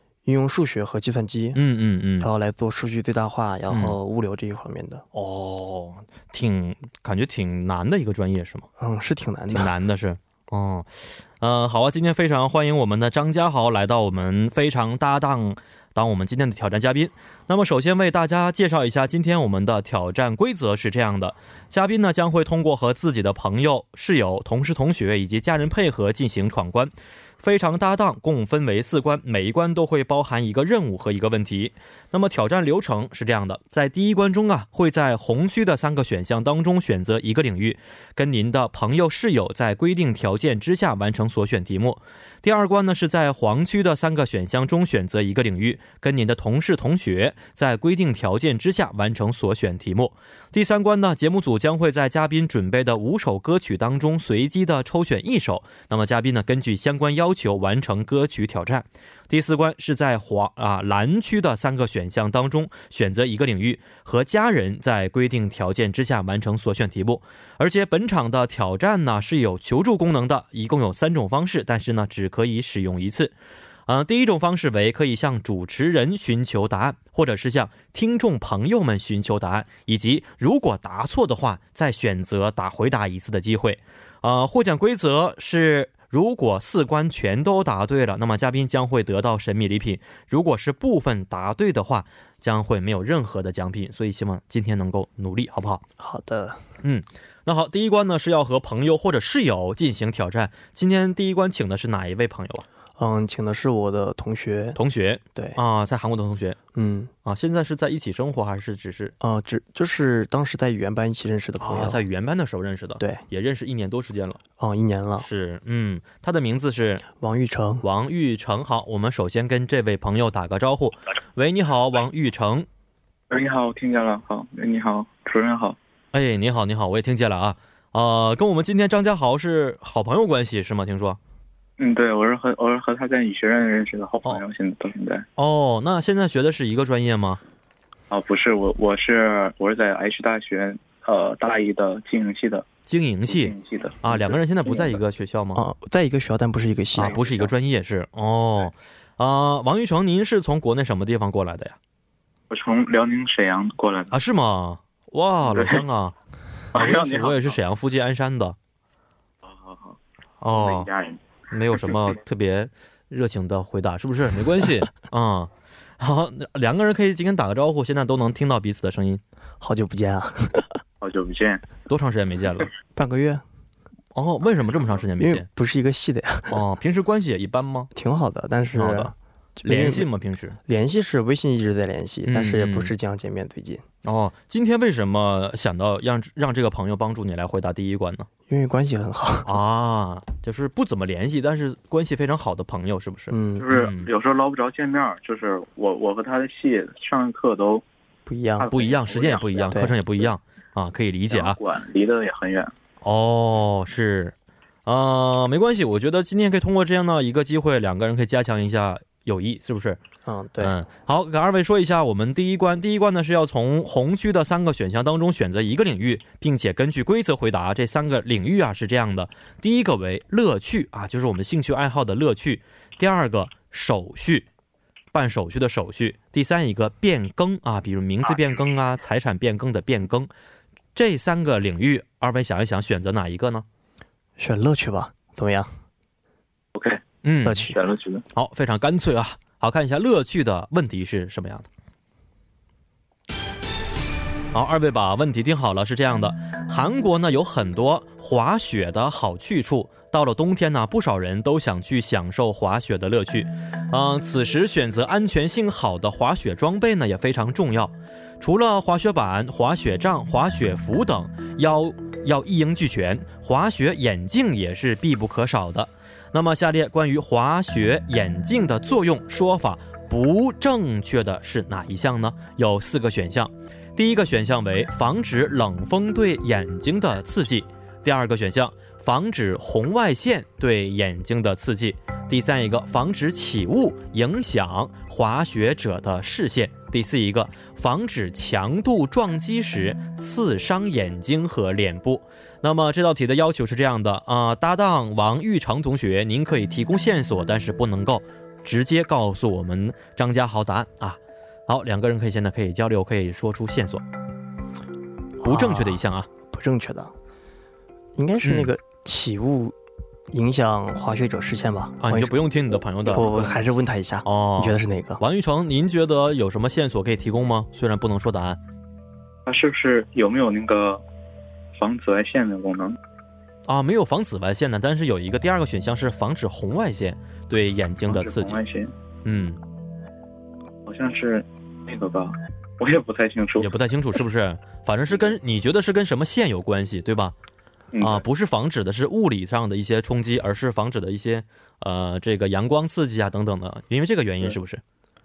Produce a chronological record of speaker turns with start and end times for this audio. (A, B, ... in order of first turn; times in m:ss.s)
0:00.2-0:01.6 A
0:01.5-0:02.3 B
0:02.2-0:05.0 A
0:03.7-0:04.0 B
0:05.1-0:08.7 B
0:08.8-0:09.7 A
0:09.5-1:13.4 B
1:13.9-1:35.8 B
1:36.0-1:36.6 A
1:36.8-1:42.6 B
1:43.0-1:44.8 A
1:44.8-1:46.6 B
1:46.7-1:47.1 A
1:47.2-1:49.1 B
1:49.2-1:52.0 A
1:51.6-1:54.4 B
1:54.6-1:55.3 A
1:55.2-1:57.0 B
1:57.2-1:57.8 A
1:57.8-2:02.7 B
2:03.3-2:05.8 C
2:06.1-2:11.2 B
2:11.8-2:15.2 C
2:15.4-2:17.4 B
2:18.1-2:22.7 C
2:22.8-2:25.6 B
2:23.3-2:25.0 C
2:25.5-2:27.2 A
2:27.0-2:31.8 B
2:27.0-2:27.5 C
2:32.5-2:34.1 C
2:34.1-2:36.1 B
2:35.5-2:35.8 C
2:36.7-2:37.5 C
2:36.7-2:38.6 B
2:39.4-2:40.0 C
2:40.4-2:40.9 B
2:40.5-2:41.2 C
2:41.5-2:49.2 B
2:49.6-2:50.8 A
2:51.0-2:51.7 C
2:51.9-2:52.7 B
2:52.9-2:53.4 A
2:54.1-2:55.5 B
2:55.2-2:56.6 A
2:56.5-2:57.9 B
2:57.9-3:00.1 A
2:58.7-2:59.1 B
2:59.6-3:00.6 B
3:00.6-3:03.8 A
3:02.2-3:02.9 B
3:04.0-3:08.3 B
3:08.5-3:09.6 A
3:09.4-3:14.1 B
3:13.3-3:13.7 A
3:13.6-3:17.8 C
3:18.3-3:18.7 A
3:18.6-3:19.8 C
3:18.7-3:21.6 B
3:19.7-3:20.0 A
3:21.3-3:22.7 C
3:23.0-3:24.3 B
3:24.8-3:30.0 B
3:30.2-3:30.8 A
3:30.6-3:44.5 B
3:45.1-3:50.3 B
3:50.9-3:53.6 B
3:54.4-3:55.7 A
3:56.7-3:57.1 C
3:57.2-3:57.7 B
3:57.4-3:57.8 A
3:57.7-3:58.2 C
3:58.3-4:01.7 B
4:04.5-5:04.0 B
5:05.4-5:07.1 A
5:05.4-5:06.3 B
5:08.2-5:09.7 A
5:08.4-5:08.7 B
5:10.3-5:12.4 A
5:12.0-5:13.6 B
5:13.1-5:15.2 A
5:14.2-5:18.6 B
5:19.4-5:21.0 C
5:21.7-5:23.0 C
5:23.6-5:28.6 B
5:28.1-5:28.9 C
5:29.2-5:29.6 B
5:30.8-5:33.7 C
5:33.6-5:37.4 B
5:37.9-5:38.2 C
5:38.0-5:44.8 B